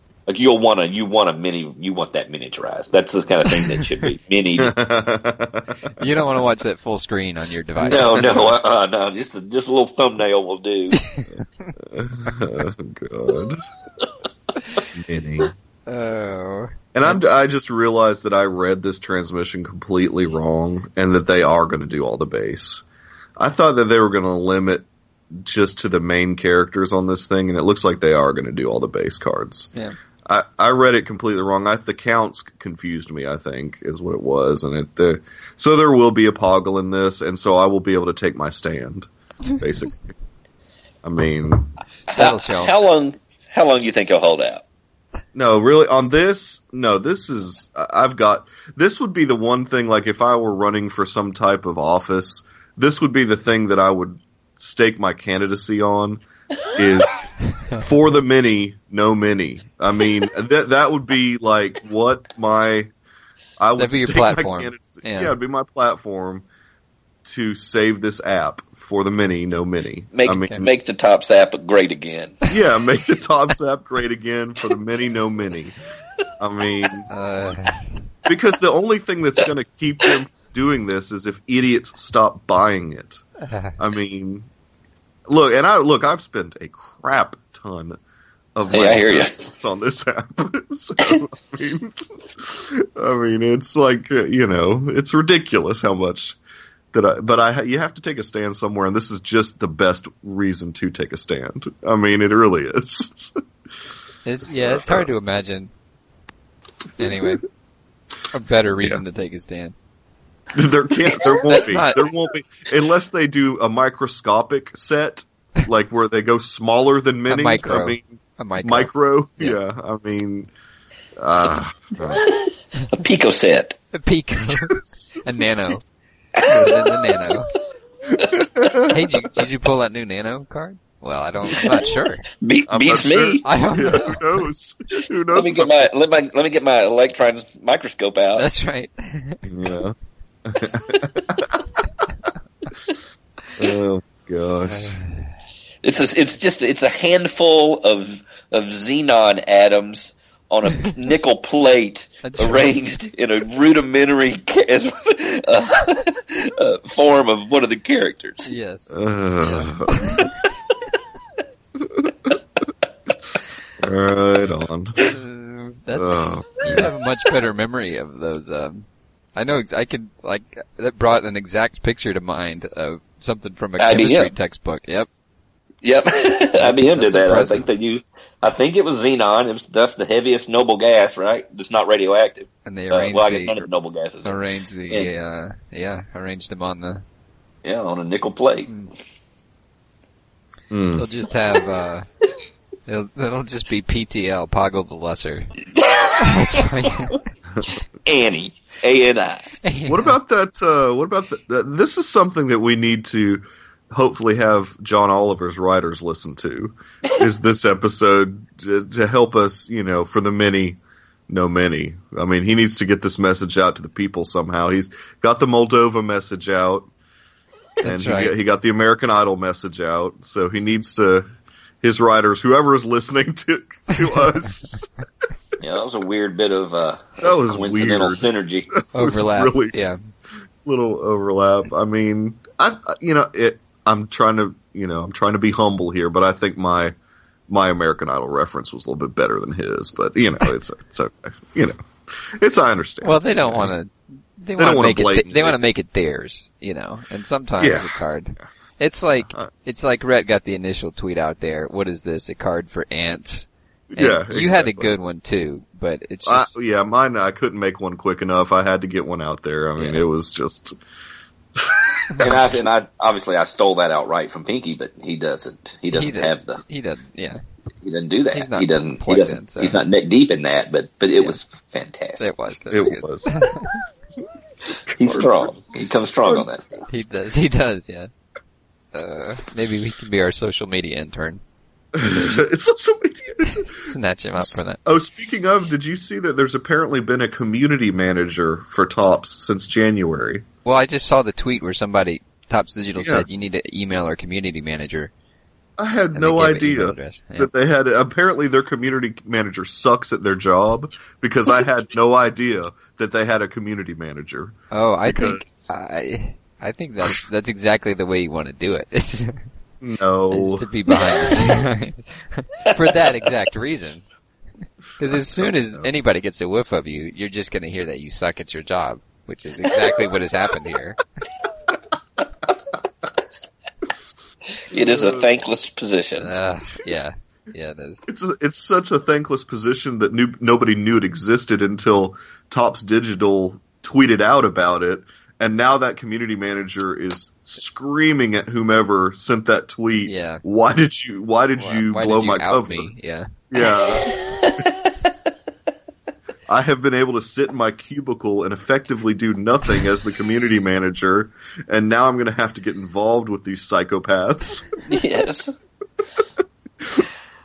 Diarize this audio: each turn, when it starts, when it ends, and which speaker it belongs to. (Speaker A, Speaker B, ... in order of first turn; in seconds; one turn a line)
Speaker A: 0.3-4.8
Speaker B: 4.6-6.0
Speaker C: 6.0-8.4
Speaker A: 7.8-11.0
Speaker B: 7.9-8.5
Speaker C: 10.9-11.7
Speaker B: 11.8-13.6
Speaker B: 14.9-15.5
Speaker C: 15.9-17.2
Speaker B: 16.9-22.8
Speaker B: 23.4-29.7
Speaker B: 30.3-40.1
Speaker B: 41.0-41.7
Speaker A: 42.1-44.6
Speaker C: 42.1-42.7
Speaker B: 45.3-62.9
Speaker C: 57.5-57.8
Speaker B: 63.6-66.5
Speaker C: 63.8-65.4
Speaker B: 67.2-70.7
Speaker A: 70.1-72.4
Speaker B: 72.5-75.8
Speaker B: 76.4-77.1
Speaker C: 77.1-78.0
Speaker B: 78.3-83.2
Speaker C: 83.4-83.8
Speaker B: 83.8-84.5
Speaker B: 85.3-88.0
Speaker B: 88.5-96.4
Speaker A: 88.7-89.4
Speaker B: 96.9-103.4
Speaker C: 104.2-105.7
Speaker B: 104.5-105.1
Speaker B: 107.0-107.4
Speaker C: 107.0-107.4
Speaker C: 108.3-109.8
Speaker B: 110.5-120.5
Speaker C: 111.5-112.0
Speaker C: 117.3-119.6
Speaker B: 121.2-122.3
Speaker A: 122.1-123.8
Speaker C: 123.9-125.8
Speaker B: 124.5-125.2
Speaker A: 126.4-127.3
Speaker C: 126.4-127.5
Speaker B: 128.1-128.9
Speaker C: 128.9-132.3
Speaker A: 131.6-133.5
Speaker B: 132.7-135.9
Speaker C: 133.4-134.2
Speaker A: 135.3-138.4
Speaker C: 138.4-139.4
Speaker B: 139.4-139.9
Speaker B: 140.5-141.6
Speaker B: 143.6-145.0
Speaker C: 144.7-145.3
Speaker A: 145.8-158.5
Speaker C: 152.2-152.7
Speaker C: 158.4-160.3
Speaker B: 158.9-160.3
Speaker B: 161.8-162.4
Speaker B: 163.2-165.0
Speaker C: 165.0-175.1
Speaker B: 165.9-166.9
Speaker A: 173.8-174.3
Speaker A: 175.8-185.1
Speaker C: 176.6-177.7
Speaker C: 182.7-183.7
Speaker C: 184.2-187.0
Speaker A: 187.6-188.7
Speaker B: 190.7-191.1
Speaker C: 191.0-192.1
Speaker C: 192.9-195.6
Speaker A: 195.7-196.9
Speaker C: 196.2-197.2
Speaker A: 198.0-199.5
Speaker C: 199.6-200.2
Speaker B: 199.9-216.9
Speaker C: 217.8-218.3
Speaker B: 217.8-221.3
Speaker B: 221.8-224.9
Speaker A: 225.6-228.7
Speaker B: 227.2-229.8
Speaker C: 228.9-230.0
Speaker B: 230.6-236.9
Speaker B: 237.5-243.8
Speaker C: 243.0-256.5
Speaker B: 244.6-245.6
Speaker B: 247.6-248.4
Speaker B: 253.9-254.9
Speaker B: 256.3-260.7
Speaker C: 259.8-260.0
Speaker B: 261.6-262.7
Speaker A: 262.2-266.6
Speaker C: 265.9-267.4
Speaker A: 267.8-272.2
Speaker C: 268.3-269.8
Speaker C: 272.2-273.8
Speaker B: 272.7-273.4
Speaker B: 274.9-275.5
Speaker A: 274.9-276.8
Speaker C: 276.9-278.1
Speaker C: 278.9-281.4
Speaker B: 281.9-283.8
Speaker C: 282.0-282.4
Speaker C: 283.6-284.8
Speaker B: 284.4-290.4
Speaker C: 290.6-295.1
Speaker B: 293.0-293.3
Speaker B: 295.8-304.6
Speaker C: 296.1-297.5
Speaker C: 304.7-309.4
Speaker B: 305.1-305.7
Speaker B: 309.8-310.7
Speaker C: 310.3-314.1
Speaker A: 312.7-313.1
Speaker C: 315.0-321.0
Speaker B: 315.0-315.9
Speaker A: 324.7-326.3
Speaker B: 324.7-325.3
Speaker C: 326.2-328.0
Speaker B: 328.1-342.9
Speaker C: 340.0-340.4
Speaker C: 341.6-343.3
Speaker B: 343.5-344.6
Speaker A: 343.6-345.1
Speaker B: 346.5-354.7
Speaker A: 354.8-355.6